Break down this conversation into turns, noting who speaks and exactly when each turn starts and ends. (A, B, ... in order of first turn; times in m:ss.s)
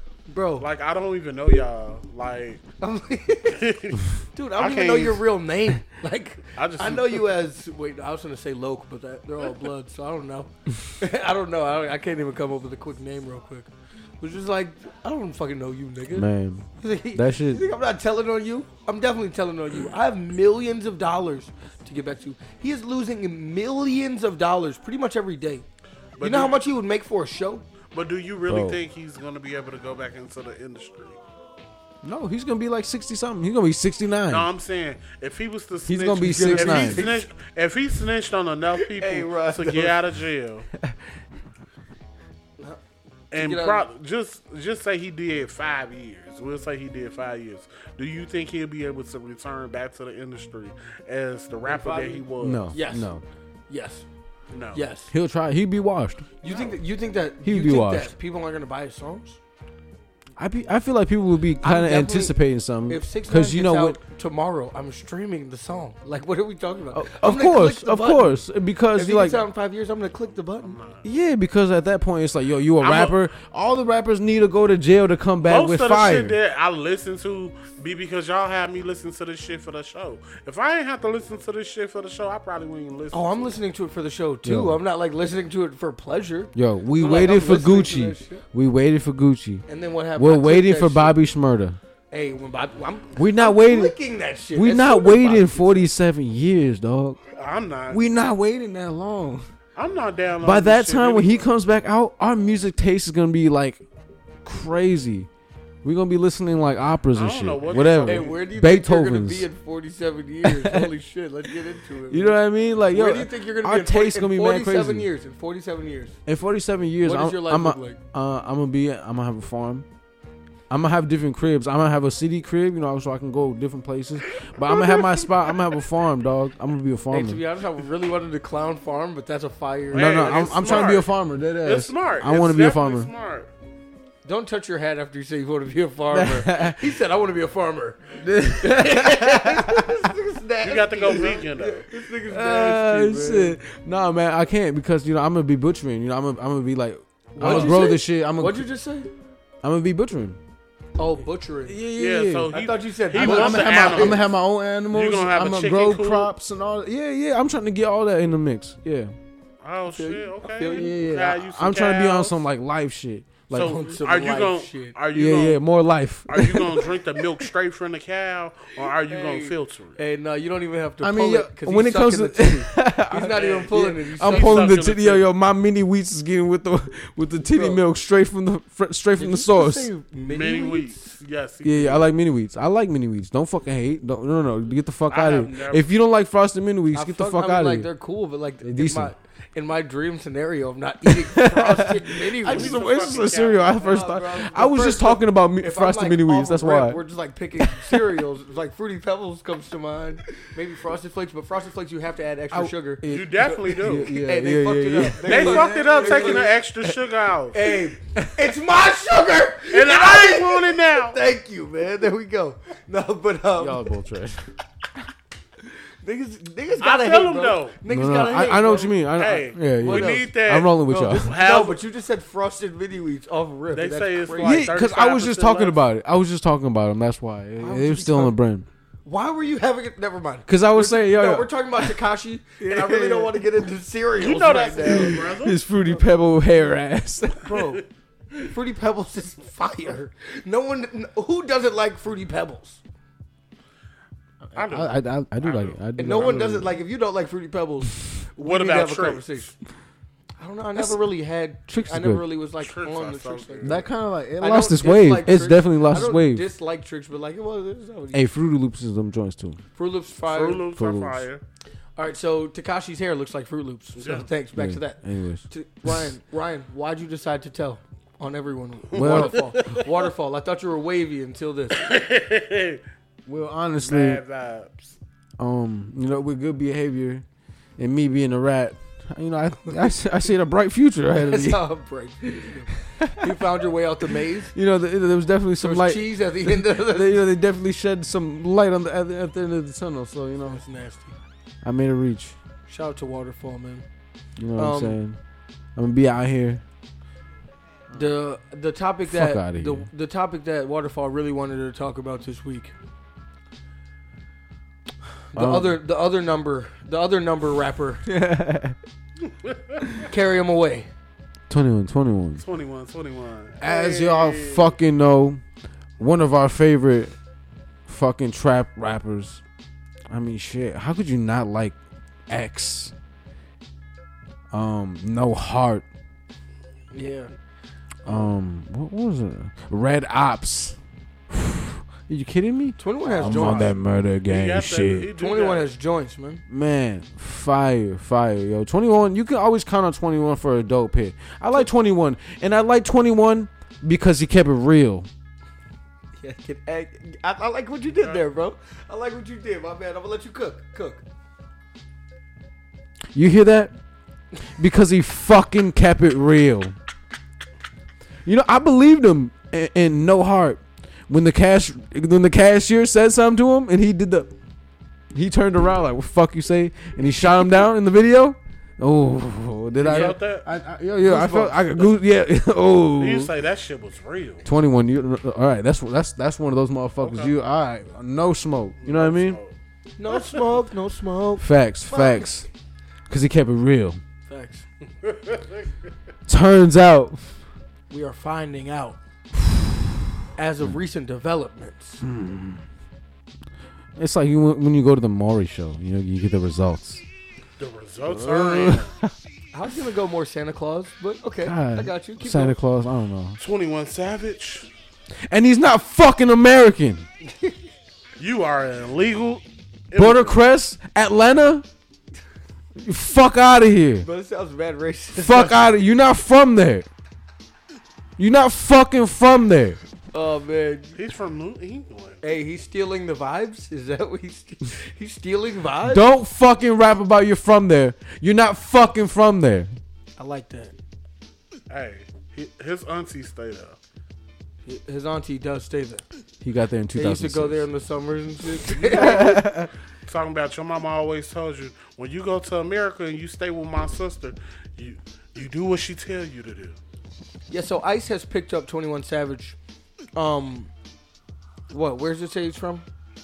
0:00.3-0:00.7 A
0:00.6-0:02.6 B
0:02.8-0:03.6 A
0:03.4-0:05.3 B
0:04.3-0:25.6 A
0:06.6-0:07.3 B
0:16.1-0:17.6 C
0:26.2-0:26.6 B
0:26.2-0:27.6 A
0:27.9-0:31.2 B
0:28.5-0:28.8 C
0:32.0-0:34.5 C
0:34.3-0:40.7 B
0:35.9-0:37.1 C
0:36.2-0:37.3 A
0:38.8-0:40.0 A
0:43.3-0:52.7 B
0:43.3-0:43.8 A
0:51.6-0:53.1 A
0:52.4-0:53.2 C
0:53.7-0:54.0 A
0:54.5-0:54.8 B
0:54.7-0:55.1 A
0:55.1-0:56.2 C
0:56.4-0:59.4 A
0:57.4-0:58.1 C
1:00.4-1:04.0 C
1:01.6-1:08.4 A
1:06.9-1:09.4 C
1:08.9-1:10.8 A
1:10.6-1:11.0 B
1:11.0-1:16.4 C
1:12.8-1:13.2 B
1:15.5-1:23.5 B
1:23.1-1:28.4 A
1:24.4-1:24.8 C
1:26.5-1:29.6 C
1:29.7-1:31.2 A
1:30.2-1:31.8 C
1:32.1-1:35.9 A
1:33.2-1:33.9 C
1:34.5-1:37.2 C
1:37.3-1:38.1 B
1:37.9-1:39.5 C
1:39.8-1:41.5 B
1:40.4-1:43.8 C
1:44.4-1:45.3 C
1:45.8-1:49.5 C
1:47.1-1:48.4 B
1:48.0-1:52.4 A
1:50.4-1:50.9 C
1:52.1-1:55.1 C
1:52.9-1:56.2 A
1:56.2-1:59.8 C
1:57.0-1:58.0 A
2:00.7-2:07.4 C
2:07.1-2:10.9 A
2:09.9-2:11.1 B
2:09.9-2:13.1 C
2:11.6-2:13.5 B
2:14.2-2:23.6 A
2:16.1-2:16.9 C
2:18.2-2:20.0 C
2:20.6-2:21.9 B
2:22.2-2:28.7 C
2:27.3-2:29.1 A
2:27.4-2:27.7 B
2:29.6-2:30.4 C
2:31.0-2:31.8 A
2:31.6-2:32.5 C
2:31.9-2:34.3 B
2:32.5-2:34.2 A
2:33.1-2:39.1 C
2:34.9-2:36.3 B
2:39.6-2:42.3 B
2:39.9-2:40.9 A
2:40.7-2:43.8 C
2:43.5-2:45.6 B
2:43.5-2:44.9 A
2:45.1-2:46.9 C
2:46.3-2:50.0 B
2:49.0-2:54.7 A
2:51.0-2:59.9 C
2:53.4-2:55.2 B
2:57.5-2:57.8 A
2:59.2-3:01.2 A
3:00.2-3:02.1 B
3:01.6-3:07.9 C
3:05.1-3:05.9 B
3:06.9-3:12.8 A
3:08.6-3:09.1 C
3:11.0-3:17.0 C
3:12.4-3:14.0 B
3:13.7-3:26.6 A
3:17.6-3:18.2 C
3:22.5-3:26.5 C
3:23.0-3:24.1 B
3:25.2-3:27.7 B
3:27.5-3:33.9 A
3:29.7-3:31.2 B
3:33.6-3:34.5 C
3:36.0-3:39.0 A
3:36.8-3:37.8 B
3:37.9-3:41.3 C
3:39.2-3:41.8 B
3:39.8-3:40.3 A
3:40.9-3:44.6 A
3:43.7-3:45.8 B
3:44.4-3:48.7 C
3:47.6-3:48.3 A
3:49.0-3:55.3 A
3:50.5-3:51.9 C
3:52.6-3:53.5 C
3:54.2-3:55.6 B
3:54.8-3:57.5 C
3:57.4-3:57.8 A
3:58.4-4:02.8 A
4:04.5-4:06.6 C
4:04.5-4:06.6 B
4:06.0-4:09.5 A
4:08.4-4:09.4 B
4:10.4-4:13.9 A
4:11.7-4:12.2 C
4:12.6-4:13.8 B
4:13.6-4:16.4 C
4:14.4-4:18.2 A
4:18.1-4:19.6 C
4:19.8-4:20.7 A
4:20.3-4:21.4 B
4:20.7-4:21.2 C
4:22.0-4:31.8 A
4:24.0-4:24.3 B
4:24.6-4:26.0 C
4:28.9-4:29.9 B
4:28.9-4:29.4 C
4:31.7-4:32.8 B
4:33.2-4:34.2 C
4:33.8-4:35.0 B
4:35.4-4:37.2 C
4:37.8-4:41.6 C
4:41.2-4:44.5 A
4:42.4-4:43.2 C
4:44.5-4:50.6 C
4:45.6-4:47.2 A
4:50.4-4:51.2 A
4:51.6-4:52.4 C
4:52.7-4:53.8 A
4:54.4-4:55.2 C
4:54.6-4:55.0 A
4:55.8-4:56.6 C
4:57.9-5:02.7 A
4:59.0-4:59.9 C
5:05.3-5:08.1 A
5:05.4-5:05.8 C
5:08.1-5:08.8 C
5:09.3-5:10.0 B
5:10.0-5:10.9 A
5:11.5-5:12.4 C
5:12.4-5:14.7 B
5:13.6-5:15.4 C
5:16.0-5:17.1 C
5:17.9-5:19.4 C
5:20.1-5:21.8 C
5:22.3-5:22.9 C
5:24.5-5:25.8 C
5:26.9-5:27.3 A
5:28.0-5:30.8 C
5:31.3-5:35.1 C
5:32.8-5:33.7 A
5:33.0-5:35.7 B
5:35.2-5:36.4 A
5:36.5-5:45.1 C
5:46.2-5:51.0 A
5:53.1-5:53.7 C
5:54.5-5:56.7 C
5:58.2-6:04.3 C
6:05.1-6:13.3 C
6:09.8-6:10.4 B
6:11.0-6:11.6 A
6:13.0-6:14.4 B
6:14.4-6:19.4 C
6:17.0-6:17.3 B
6:18.8-6:19.5 B
6:20.0-6:22.3 A
6:21.4-6:22.5 C
6:23.1-6:24.0 C
6:24.3-6:24.6 A
6:25.0-6:25.7 B
6:26.3-6:27.4 C
6:27.9-6:29.0 A
6:30.4-6:32.0 A
6:32.0-6:32.6 C
6:34.0-6:37.0 C
6:37.6-6:38.9 B
6:38.1-6:39.1 C
6:39.5-6:42.6 A
6:41.4-6:43.4 C
6:43.4-6:44.7 B
6:45.3-6:47.0 C
6:48.2-6:50.4 B
6:50.0-6:51.6 C
6:52.8-6:54.1 C
6:54.0-6:55.6 A
6:55.1-6:56.9 C
6:58.2-6:59.8 C
7:00.1-7:01.0 A
7:00.9-7:02.2 B
7:02.2-7:06.0 A
7:05.8-7:09.8 C
7:10.2-7:10.8 A
7:11.7-7:13.8 B
7:14.6-7:16.0 A
7:16.4-7:17.6 C
7:16.9-7:19.4 A
7:18.7-7:19.4 B
7:18.8-7:19.7 C
7:20.0-7:26.8 B
7:27.5-7:29.6 A
7:30.1-7:30.7 A
7:31.7-7:32.8 A